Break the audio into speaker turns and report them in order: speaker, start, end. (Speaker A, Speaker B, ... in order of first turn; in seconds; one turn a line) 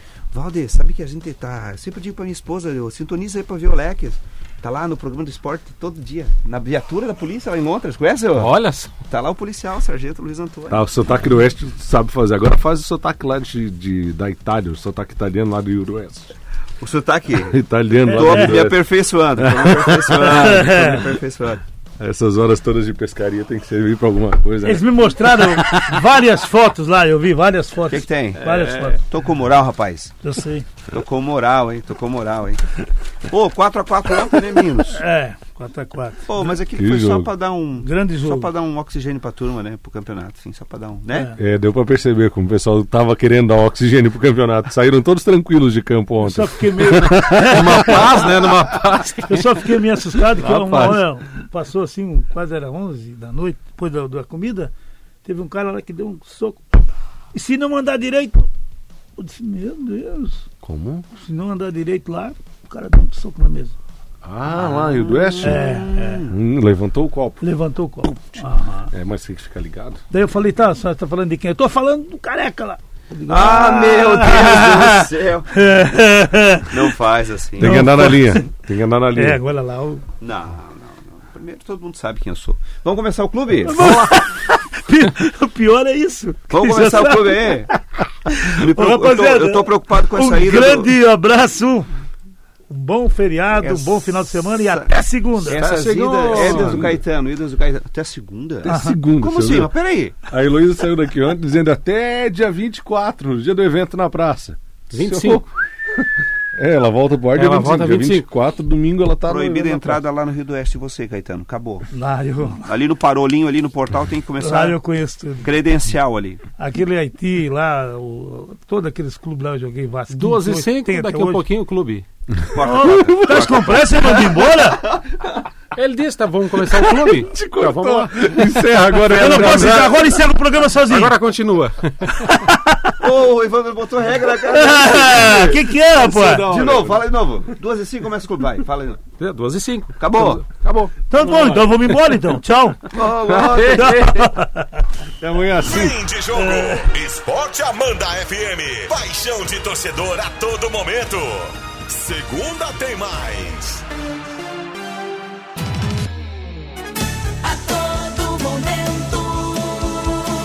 Speaker A: 0.3-10.8
Speaker B: 8.4-8.9
Speaker C: 10.7-16.4
Speaker A: 16.8-21.6
Speaker C: 17.5-20.6
Speaker D: 18.2-18.5
Speaker D: 20.2-21.0
Speaker C: 22.0-26.0
Speaker D: 24.6-29.0
Speaker A: 27.9-30.1
Speaker D: 30.2-30.7
Speaker A: 30.9-32.6
Speaker A: 33.3-35.0
Speaker D: 34.9-36.4
Speaker A: 36.3-41.3
Speaker C: 36.7-37.3
Speaker D: 37.8-38.5
Speaker C: 41.4-48.8
Speaker D: 46.2-48.0
Speaker B: 47.4-49.6
Speaker D: 49.3-54.7
Speaker C: 50.2-51.1
Speaker D: 55.2-58.5
Speaker D: 59.2-60.5
Speaker C: 60.6-61.1
Speaker D: 61.2-63.8
Speaker C: 64.2-65.7
Speaker A: 64.5-66.3
Speaker D: 65.4-66.2
Speaker C: 66.2-67.4
Speaker D: 67.4-68.9
Speaker C: 68.9-70.0
Speaker D: 70.1-76.8
Speaker A: 73.3-75.6
Speaker A: 76.7-78.1
Speaker C: 77.6-79.4
Speaker D: 77.6-78.5
Speaker D: 79.1-80.0
Speaker A: 80.2-84.0
Speaker D: 83.7-91.9
Speaker C: 83.7-84.2
Speaker A: 86.5-87.7
Speaker A: 88.5-90.9
Speaker D: 92.7-95.6
Speaker A: 93.6-94.9
Speaker A: 95.4-100.2
Speaker B: 95.5-96.9
Speaker C: 95.7-97.0
Speaker C: 98.6-99.7
Speaker D: 98.7-99.0
Speaker C: 100.2-110.0
Speaker B: 104.9-105.5
Speaker B: 107.3-108.3
Speaker A: 109.3-111.9
Speaker D: 111.9-112.7
Speaker A: 112.6-114.8
Speaker D: 114.4-115.5
Speaker A: 115.4-116.4
Speaker D: 116.6-121.4
Speaker B: 120.1-122.0
Speaker A: 122.4-125.4
Speaker D: 122.6-124.9
Speaker B: 125.8-130.0
Speaker C: 126.6-130.2
Speaker D: 129.1-131.2
Speaker B: 130.8-132.5
Speaker D: 132.4-133.0
Speaker A: 133.0-135.6
Speaker D: 134.4-136.5
Speaker C: 135.0-137.1
Speaker A: 136.4-139.0
Speaker B: 139.2-142.1
Speaker A: 140.0-140.4
Speaker D: 141.1-142.9
Speaker C: 142.9-144.4
Speaker A: 142.9-143.8
Speaker B: 143.2-144.2
Speaker D: 143.8-144.8
Speaker C: 145.2-146.0
Speaker E: 145.6-153.8
Speaker D: 146.4-146.9
Speaker F: 157.6-159.9